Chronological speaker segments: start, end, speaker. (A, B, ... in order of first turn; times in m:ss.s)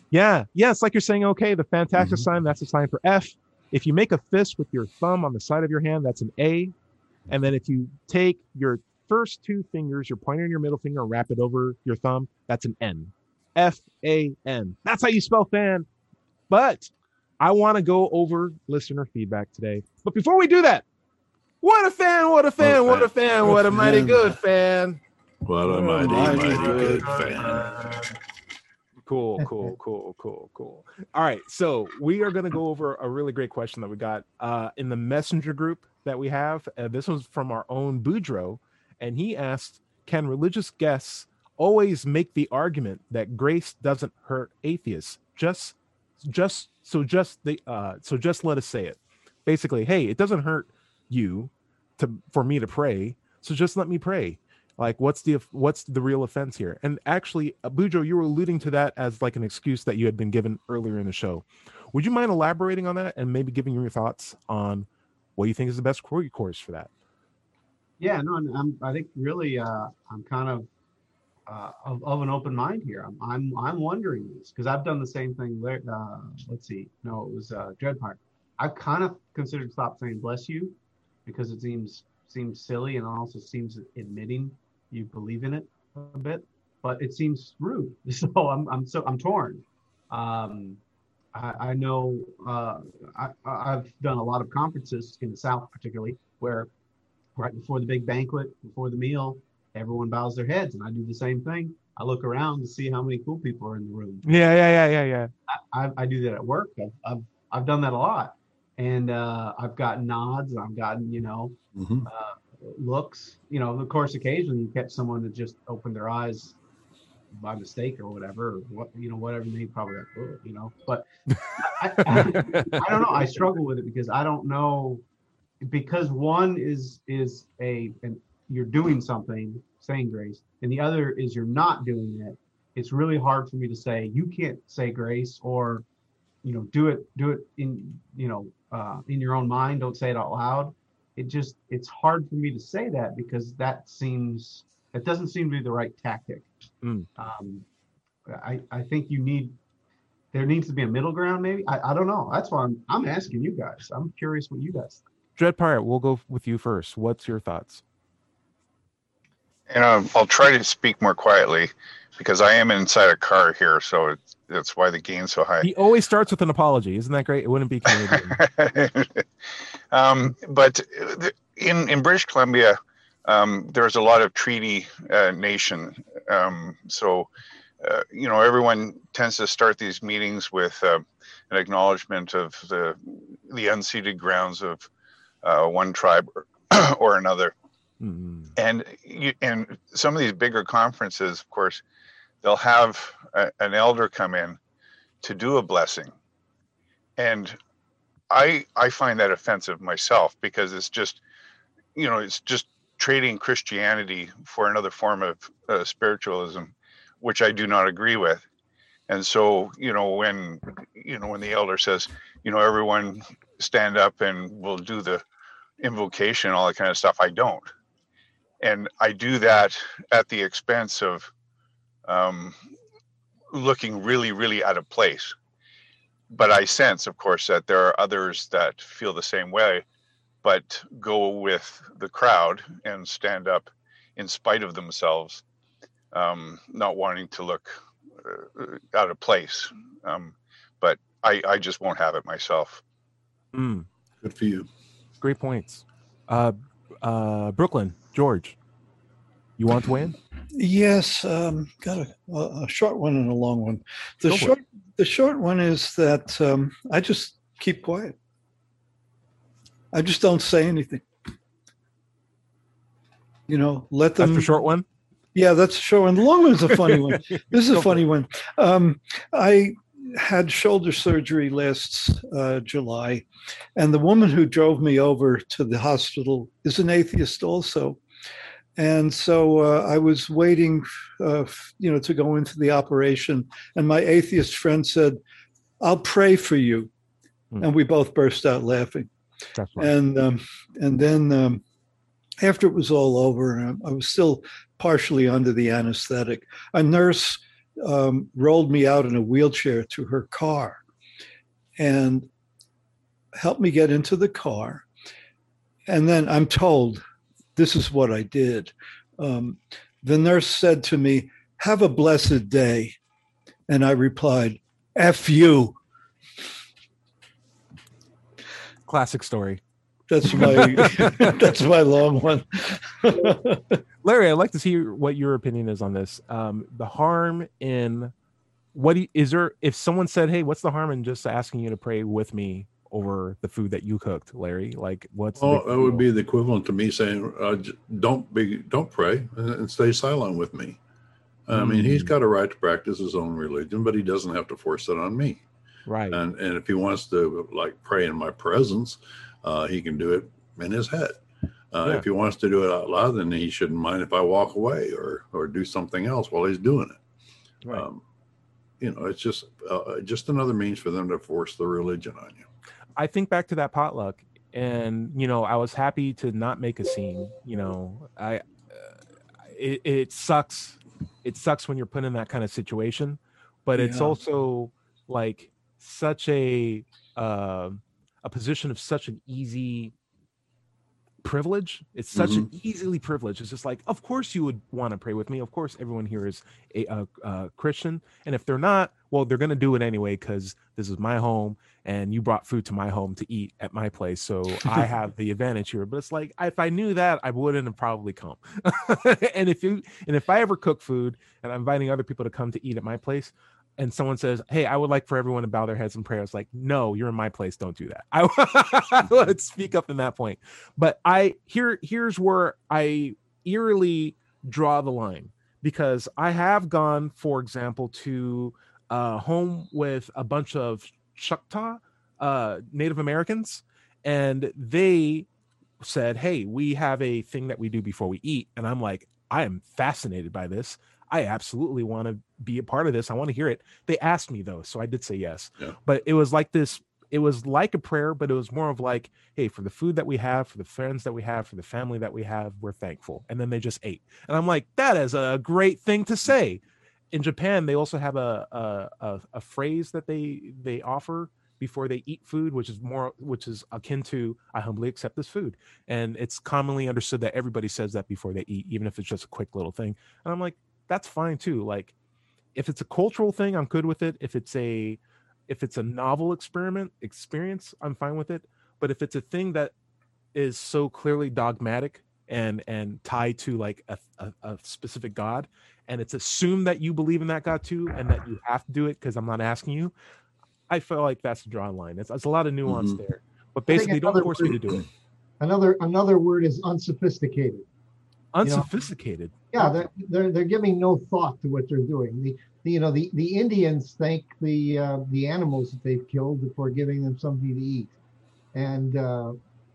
0:00.1-0:06.7 A
0:02.0-0:02.3 B
0:07.3-0:15.9 A
0:16.5-0:20.8 A
0:21.6-0:25.0 A
0:22.6-0:24.2 B
0:23.7-0:24.2 C
0:25.4-0:28.0 B
0:25.6-0:28.0 C
0:26.0-0:27.0 A
0:29.1-1:06.9 A
1:08.0-1:10.7 D
1:11.5-1:20.8 D
1:21.3-1:30.8 D
1:31.3-1:36.7 D
1:37.4-1:44.3 D
1:44.2-1:45.3 A
1:45.5-1:56.6 D
1:51.8-1:52.1 B
1:57.3-2:01.1 D
2:01.4-2:03.0 A
2:01.6-2:05.0 D
2:05.6-2:15.8 D
2:16.4-2:26.5 D
2:26.8-2:27.1 A
2:27.2-2:27.6 D
2:28.3-2:29.6 D
2:30.3-2:35.0 D
2:35.4-2:37.8 A
2:39.7-2:45.7 E
2:45.6-2:48.4 A
2:48.4-2:49.2 E
2:49.9-2:57.3 E
2:57.8-3:04.9 E
3:05.4-3:07.5 E
3:08.0-3:08.5 A
3:08.6-3:11.8 E
3:12.4-3:14.6 E
3:15.2-3:16.2 E
3:17.2-3:17.6 E
3:18.3-3:21.2 E
3:22.0-3:28.4 E
3:29.1-3:35.2 E
3:35.8-3:37.7 E
3:38.6-3:41.3 E
3:42.1-3:42.6 E
3:43.5-3:45.4 E
3:46.3-3:49.8 E
3:50.4-3:55.4 E
3:56.1-4:02.8 E
4:03.5-4:03.9 A
4:04.2-4:04.7 B
4:05.2-4:08.6 A
4:09.6-4:10.2 A
4:10.6-4:18.2 C
4:14.3-4:14.6 A
4:19.9-4:21.0 C
4:23.5-4:24.6 C
4:24.2-4:24.8 A
4:25.4-4:38.0 C
4:27.7-4:28.0 A
4:38.8-4:45.2 C
4:45.8-4:46.9 C
4:47.6-4:49.1 C
4:49.6-4:49.9 A
4:49.8-4:51.6 C
4:52.4-5:00.8 C
5:01.8-5:02.3 C
5:03.4-5:04.9 C
5:05.9-5:07.0 C
5:07.6-5:13.0 C
5:13.7-5:15.8 C
5:18.9-5:19.6 A
5:20.1-5:23.8 C
5:20.3-5:21.5 A
5:24.0-5:28.1 A
5:28.7-5:36.0 A
5:35.4-5:40.8 B
5:41.5-5:45.4 B
5:41.5-5:42.1 A
5:45.9-5:46.2 A
5:46.1-5:51.2 B
5:51.7-5:57.0 B
5:57.7-5:58.0 B
5:58.8-6:02.5 B
6:03.0-6:08.9 A
6:09.5-6:19.9 A
6:13.8-6:14.2 C
6:21.2-7:05.3 A
6:22.2-6:22.5 B
7:05.8-7:26.6 A
7:27.1-7:41.9 A
7:42.6-7:49.7 A
7:50.4-7:59.9 A
8:00.7-8:04.9 A
8:02.7-8:03.0 B
8:03.7-8:04.6 F
8:05.4-8:07.6 F
8:08.4-8:09.6 A
8:08.4-8:08.7 F
8:09.5-8:17.9 F
8:18.5-8:19.4 F